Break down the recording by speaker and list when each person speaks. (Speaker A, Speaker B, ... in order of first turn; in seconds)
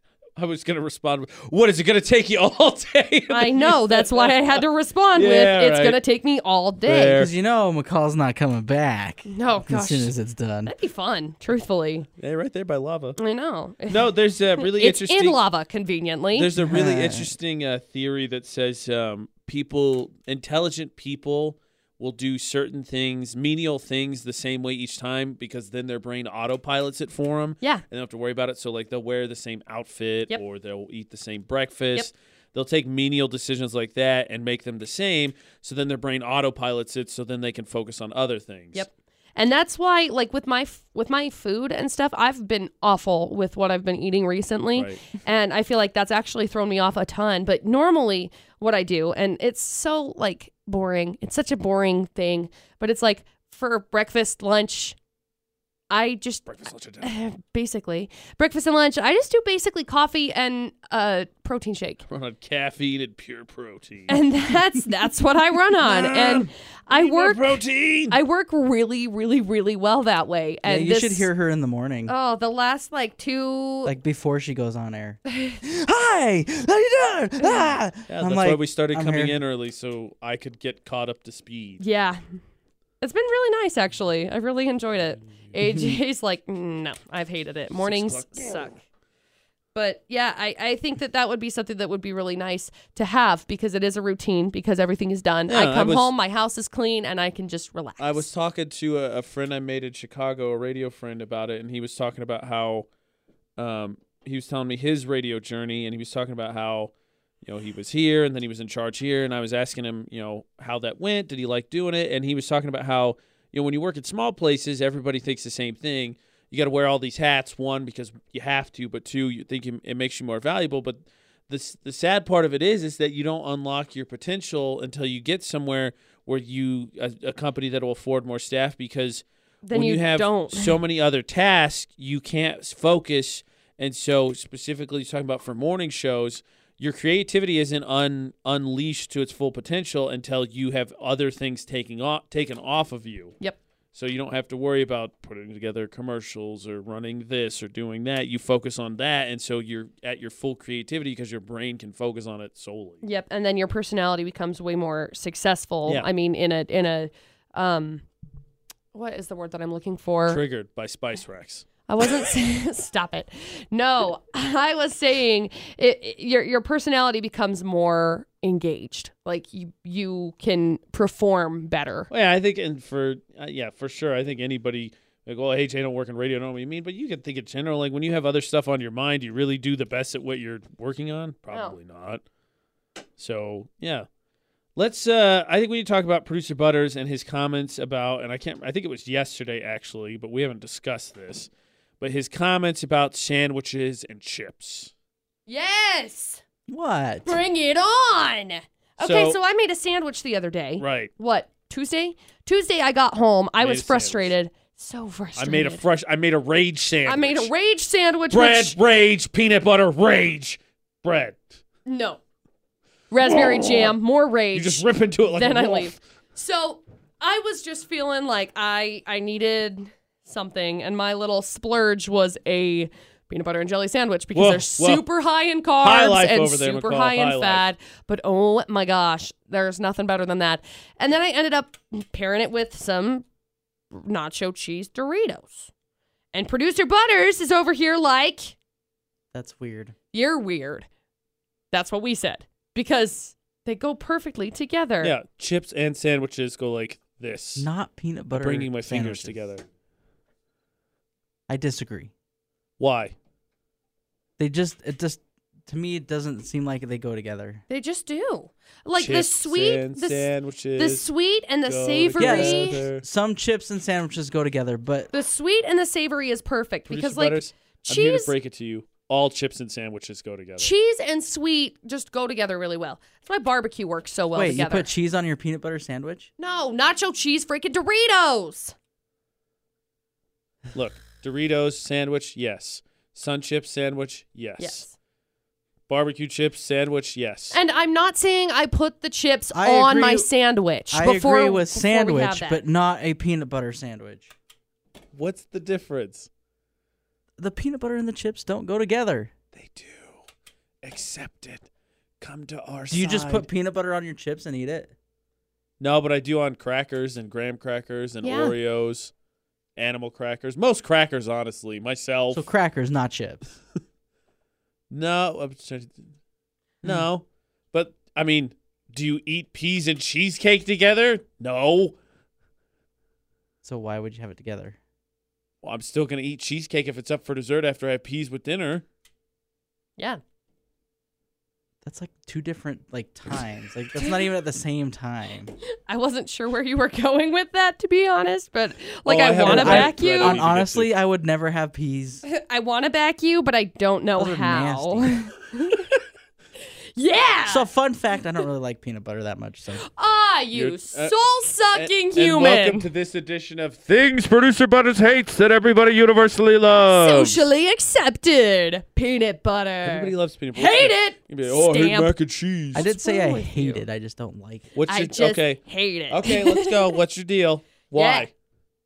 Speaker A: 0.4-4.6, 5.2-6.0, 6.8-7.3, 12.2-13.2, 13.9-15.4, 16.3-38.9, 44.8-45.0, 56.5-57.2, 62.1-64.2, 65.8-68.2, 78.1-81.8, 87.7-88.7, 95.5-96.1, 98.0-102.9, 103.6-106.9, 107.4-143.4, 143.9-153.0, 160.3-161.7, 172.1-182.2, 183.2-184.1, 184.8-194.9, 199.0-199.4, 200.8-201.1, 203.6-204.3, 205.4-207.5, 208.3-211.4, 213.3-213.9, 214.5-215.9, 224.3-225.0, 225.8-227.7, 245.0-247.7, 248.3-249.6, 252.8-253.2, 259.0-261.1, 261.6-263.0, 266.9-270.7, 280.7-284.9, 285.9-287.6, 295.1-296.3, 299.5-300.2, 300.8-301.7, 302.2-303.5, 305.8-309.1, 309.8-312.5, 314.9-316.1, 316.8-322.0, 325.6-328.8, 339.1-340.9, 350.5-351.1, 351.7-357.5, 359.8-362.9, 364.8-368.3
Speaker B: 3.3-7.3, 9.2-10.1, 10.7-12.1, 13.2-16.5, 38.8-55.0, 55.9-56.5, 57.0-62.0, 64.1-71.3, 72.1-73.9, 77.4-77.8, 81.8-82.2, 83.0-88.8, 89.7-98.3, 129.7-130.8, 153.0-158.1, 158.9-160.4, 161.9-172.1, 181.5-181.8, 195.5-196.4, 197.3-205.8, 207.1-208.8, 211.9-212.2, 213.1-233.2, 233.9-235.7, 236.3-238.6, 240.1-240.9, 241.7-245.2, 257.7-262.8, 265.1-268.3, 270.6-274.9, 276.4-278.8, 284.6-284.9, 287.5-292.6, 308.2-308.6, 333.9-334.4, 335.9-340.4, 342.2-345.9, 347.0-347.7, 349.9-352.9, 356.8-362.1, 362.7-363.9, 364.9-367.0, 367.9-368.3
Speaker C: 7.2-10.7, 16.6-17.4, 70.7-72.1, 73.8-79.4, 85.6-86.0, 196.7-197.4, 239.3-239.9, 247.6-249.5, 251.5-252.1, 254.4-257.6, 262.2-265.1, 274.3-276.3, 289.5-290.3, 290.9-294.3, 297.4-299.3, 302.9-304.9, 312.3-313.5, 323.6-324.8, 331.8-335.5, 339.4-342.2, 344.2-345.2, 347.5-349.8, 362.8-364.7